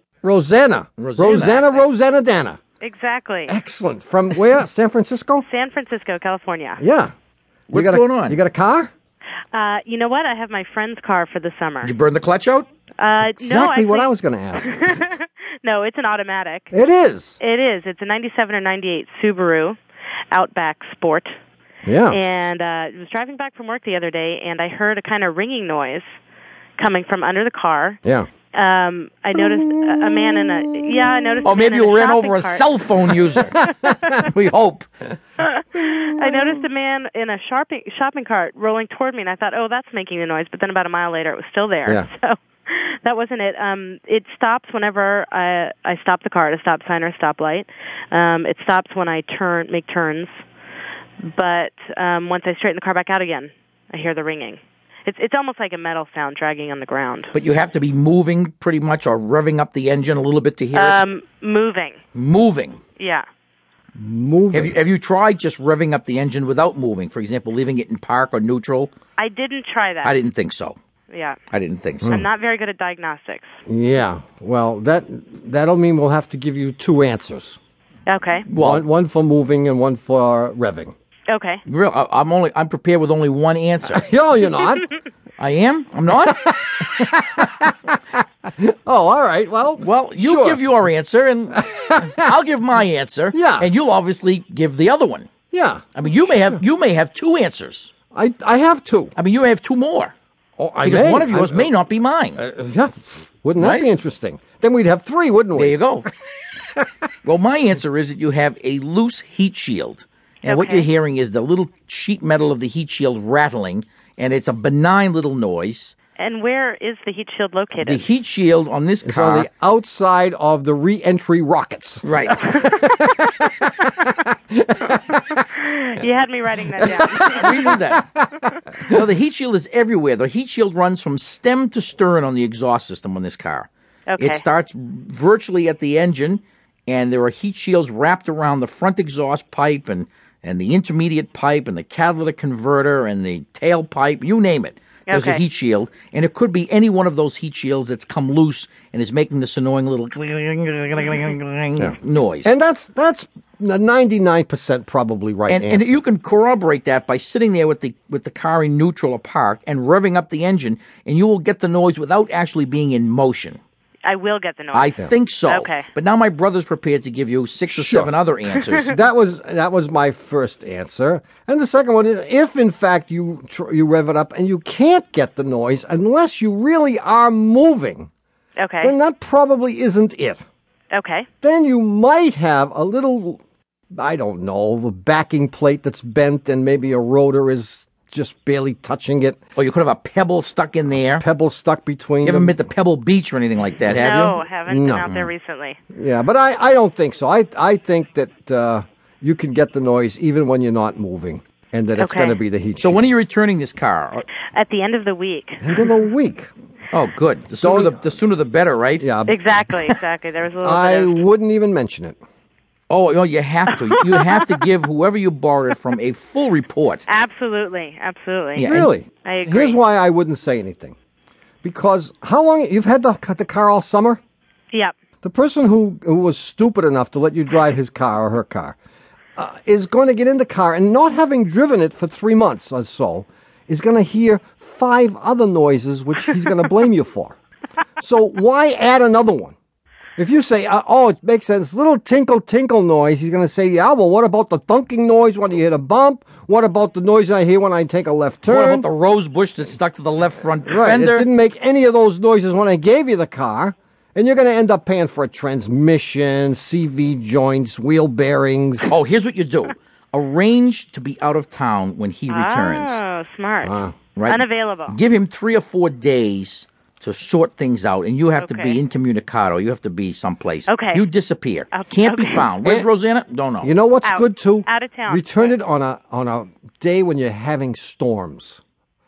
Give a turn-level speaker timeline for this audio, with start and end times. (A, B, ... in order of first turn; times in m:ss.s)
0:00.2-0:02.6 A
0:01.0-0:01.8 B
0:02.8-0:03.6 C
0:03.5-0:05.5 A
0:05.4-0:06.8 C
0:06.8-0:07.1 A
0:07.7-0:08.4 B
0:07.7-0:08.9 A
0:09.5-0:12.0 C
0:11.8-0:12.7 B
0:13.0-0:16.7 C
0:13.4-0:14.9 A
0:16.7-0:17.4 A
0:17.4-0:19.8 C
0:20.3-0:21.3 C
0:21.8-0:22.2 A
0:22.1-0:26.0 C
0:26.8-0:28.0 C
0:28.5-0:34.1 C
0:29.4-0:31.5 A
0:31.4-0:34.9 B
0:35.4-0:50.3 C
0:35.8-0:36.6 A
0:51.2-0:57.3 C
0:57.3-1:01.0 B
1:00.7-1:02.0 C
1:02.1-1:02.8 B
1:03.0-1:03.2 C
1:04.0-1:04.8 A
1:04.5-1:08.9 B
1:09.2-1:10.2 C
1:10.0-1:10.8 B
1:11.1-1:11.4 C
1:11.5-1:12.2 B
1:12.1-1:13.5 C
1:13.7-1:17.6 A
1:18.1-1:18.5 C
1:18.5-1:18.8 B
1:18.6-1:20.9 A
1:21.3-1:21.6 C
1:21.7-1:24.1 B
1:23.8-1:24.9 A
1:25.4-1:27.1 B
1:26.3-1:30.6 A
1:29.8-1:35.3 B
1:31.6-1:32.3 A
1:33.3-1:33.7 A
1:35.5-1:36.6 A
1:36.0-1:37.9 B
1:38.1-1:39.2 A
1:39.2-1:40.1 B
1:40.6-1:41.7 A
1:40.8-1:42.4 B
1:42.4-1:45.8 A
1:43.6-1:43.9 B
1:45.6-1:46.1 B
1:47.2-1:56.0 B
1:50.4-1:50.9 C
1:56.2-1:58.0 C
1:57.8-1:59.5 B
1:59.0-2:04.0 A
2:02.0-2:02.4 B
2:04.5-2:05.4 A
2:05.4-2:07.8 C
2:06.8-2:09.0 A
2:07.1-2:08.1 B
2:08.8-2:32.5 B
2:14.1-2:14.4 C
2:25.1-2:25.4 C
2:31.8-2:36.0 A
2:35.5-2:43.6 B
2:44.0-2:44.9 C
2:44.7-2:49.0 B
2:45.5-2:45.9 C
2:47.7-2:48.1 A
2:48.8-2:58.1 A
2:58.6-2:58.9 C
2:58.8-3:00.4 A
3:00.9-3:01.3 C
3:01.4-3:03.4 A
3:04.0-3:09.4 A
3:09.6-3:11.2 B
3:11.1-3:12.7 A
3:12.2-3:14.4 B
3:13.9-3:14.1 A
3:13.9-3:15.8 C
3:14.6-3:15.3 A
3:15.9-3:23.1 A
3:22.0-3:22.4 C
3:22.8-3:24.2 B
3:24.5-3:25.9 C
3:25.6-3:26.5 A
3:26.9-3:29.1 B
3:27.6-3:28.1 A
3:29.0-3:29.4 A
3:29.3-3:31.2 C
3:30.6-3:32.2 A
3:32.9-3:37.0 B
3:33.9-3:34.6 C
3:37.1-3:38.7 C
3:38.6-3:38.9 B
3:38.6-3:41.0 A
3:39.2-3:39.8 C
3:41.6-3:44.2 A
3:45.2-3:48.8 A
3:49.4-3:57.4 A
3:58.0-3:59.6 A
4:00.2-4:08.9 A
4:08.5-4:11.3 B
4:10.7-4:18.9 A
4:18.9-4:23.0 B
4:22.3-4:25.0 C
4:23.6-4:24.0 A
4:24.2-4:33.7 B
4:28.4-4:28.8 C
4:30.7-4:31.1 C
4:31.7-4:32.5 C
4:32.6-4:32.9 A
4:33.6-4:38.6 A
4:34.0-4:35.5 C